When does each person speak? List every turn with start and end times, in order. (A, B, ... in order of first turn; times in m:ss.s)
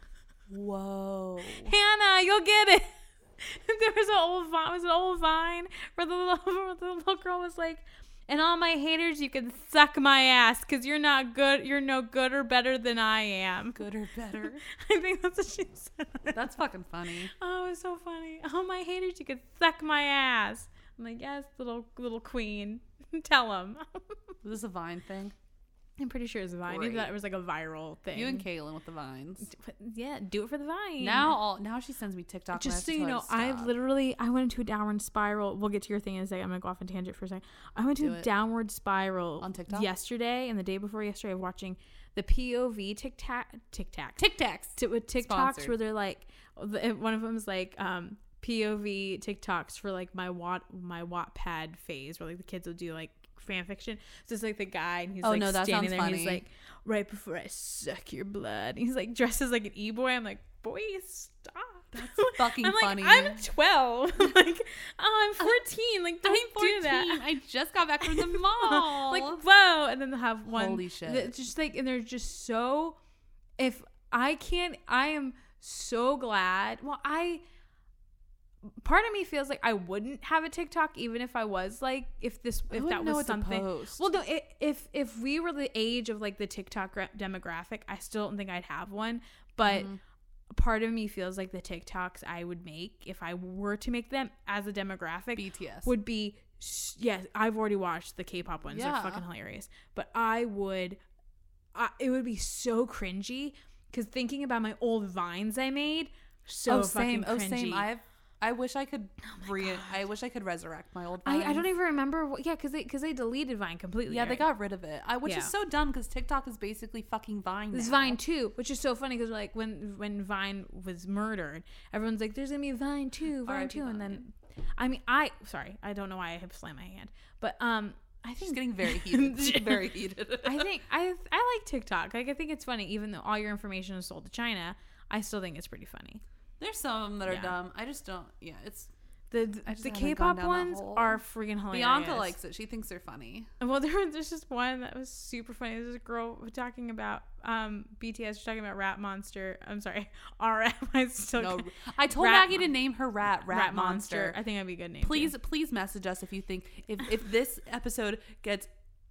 0:00.5-0:01.7 A
0:01.6-0:13.8 B
0:13.7-0:14.6 A
0:14.6-0:16.4 B
0:16.3-0:17.3 A
0:17.3-0:24.2 B
0:24.4-0:25.3 A
0:26.0-0:28.4 B
0:26.7-0:27.1 A
0:28.1-0:29.5 A
0:29.5-0:31.4 B
0:31.0-0:33.7 A
0:32.5-0:44.2 B
0:38.0-0:38.3 A
0:39.4-0:39.9 A
0:44.2-0:45.7 A
0:44.8-1:07.2 B
0:55.2-0:56.4 A
1:01.9-1:03.5 A
1:06.2-1:09.4 A
1:08.0-1:13.0 B
1:10.5-1:11.3 A
1:13.6-1:17.4 B
1:18.7-1:29.9 B
1:22.7-1:24.0 A
1:29.6-1:30.0 A
1:30.5-1:41.0 B
1:35.3-1:35.9 A
1:38.7-1:39.2 A
1:41.7-1:47.9 B
1:46.7-1:51.7 A
1:49.3-1:49.9 B
1:51.2-1:54.5 B
1:54.1-1:58.2 A
1:55.2-1:55.5 B
1:57.7-2:09.9 B
2:03.4-2:04.2 A
2:08.4-2:10.7 A
2:10.4-2:16.2 B
2:16.6-2:18.9 A
2:17.2-2:17.5 B
2:19.3-2:22.3 B
2:19.6-2:21.2 A
2:21.7-2:23.5 A
2:23.6-2:32.7 B
2:31.4-2:34.4 A
2:33.5-2:35.3 B
2:35.0-2:38.7 A